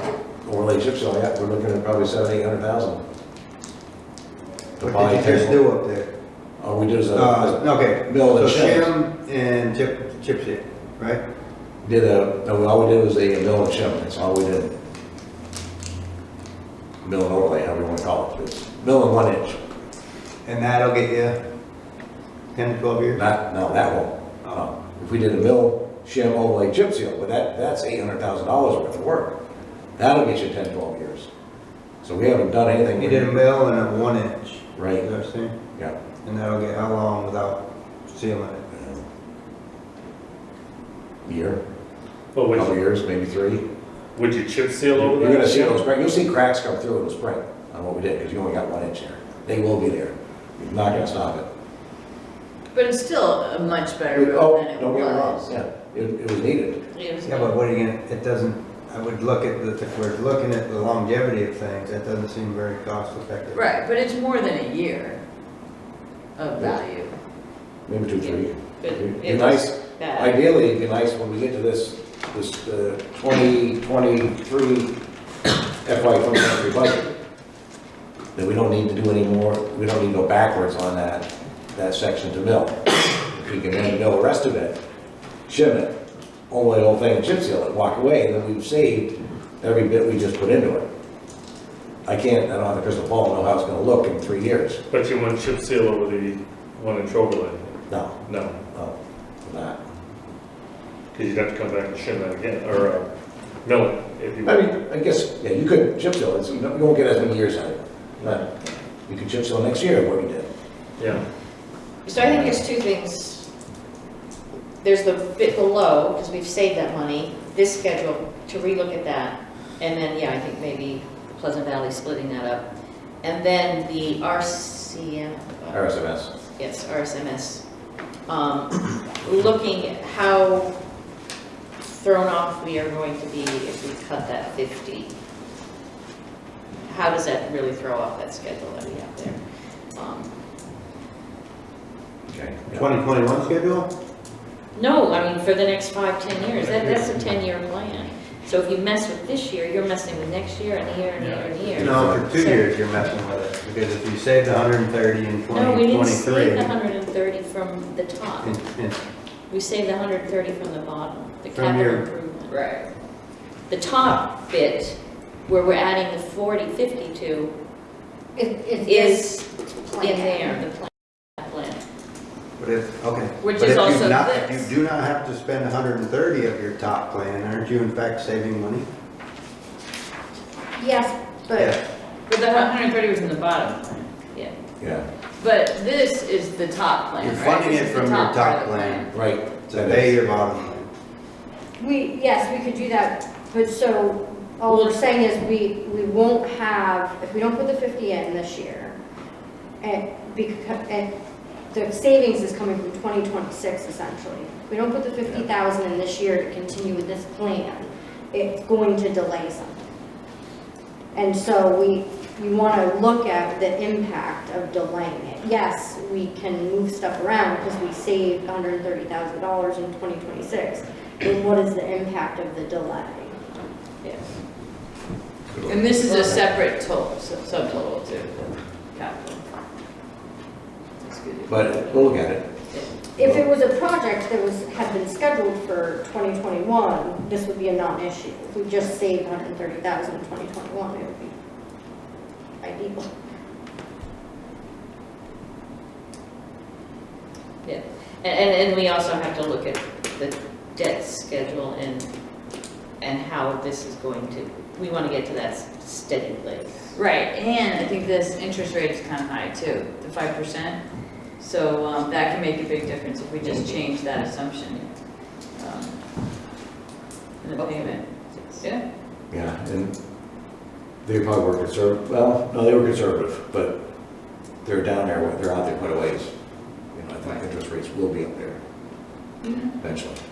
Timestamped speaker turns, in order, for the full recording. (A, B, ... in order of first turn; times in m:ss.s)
0:00.4-0:03.0 A
0:04.8-0:05.6 A
0:04.8-0:06.1 B
0:06.6-0:08.9 A
0:07.1-0:11.2 B
0:11.8-0:14.7 A
0:17.0-0:19.6 A
0:20.4-0:21.4 B
0:22.6-0:23.2 B
0:23.2-0:29.4 A
0:30.0-0:31.3 A
0:32.0-0:33.3 A
0:33.0-0:35.5 B
0:34.8-0:35.0 A
0:36.2-0:38.6 B
0:38.7-0:39.0 A
0:41.2-0:41.6 A
0:42.3-0:42.8 C
0:42.6-0:43.6 A
0:44.2-0:45.8 C
0:44.9-0:51.5 A
0:52.7-0:55.6 D
0:54.1-0:56.8 A
0:56.9-0:57.5 E
0:57.2-1:03.7 B
1:03.5-1:05.2 D
1:06.4-1:07.1 D
1:07.9-1:14.9 A
1:08.2-1:10.4 E
1:15.8-1:17.1 A
1:18.4-1:22.8 A
1:23.3-1:24.8 A
1:25.5-1:25.9 A
1:26.5-1:30.8 A
1:32.0-1:34.8 A
1:34.9-1:38.6 C
1:37.9-1:38.2 A
1:38.7-1:39.8 A
1:41.1-1:43.1 C
1:43.6-1:44.8 C
1:44.4-1:48.4 A
1:49.1-1:50.5 A
1:52.0-1:53.5 E
1:52.2-1:52.5 C
1:54.8-2:02.7 E
2:03.2-2:05.9 E
2:05.7-2:06.3 A
2:06.6-2:07.6 E
2:08.3-2:10.7 E
2:11.8-2:15.1 E
2:16.9-2:19.4 E
2:19.9-2:20.3 E
2:22.3-2:22.8 A
2:22.7-2:23.9 B
2:24.8-2:32.7 E
2:26.6-2:27.1 C
2:31.2-2:32.0 C
2:31.8-2:36.7 B
2:31.9-2:32.2 A
2:35.5-2:38.5 E
2:38.4-2:39.0 B
2:39.5-2:42.5 E
2:41.5-2:42.0 B
2:42.5-2:42.9 D
2:43.7-2:47.5 E
2:48.4-2:50.6 F
2:48.9-2:51.8 E
2:52.6-2:58.9 B
2:53.4-2:54.7 D
3:00.8-3:01.8 F
3:02.3-3:04.1 D
3:05.4-3:09.1 D
3:07.2-3:09.1 B
3:09.1-3:10.2 A
3:09.7-3:10.9 B
3:11.8-3:19.0 F
3:14.7-3:15.0 D
3:19.8-3:21.1 F
3:21.7-3:29.8 F
3:31.1-3:43.4 F
3:45.5-3:46.4 A
3:45.7-3:49.4 D
3:51.0-3:52.2 D
3:51.5-3:52.4 A
3:53.2-4:01.3 F
3:53.2-3:53.4 A
4:02.6-4:03.1 F
4:07.6-4:12.1 E
4:13.0-4:16.9 E
4:16.9-4:26.0 D
4:23.4-4:23.8 A
4:27.4-4:28.8 D
4:27.6-4:28.7 E
4:29.3-4:30.0 A
4:31.0-4:33.8 A
4:34.6-4:36.3 A
4:36.9-4:38.6 A
4:39.4-4:39.8 D
4:39.8-4:40.2 A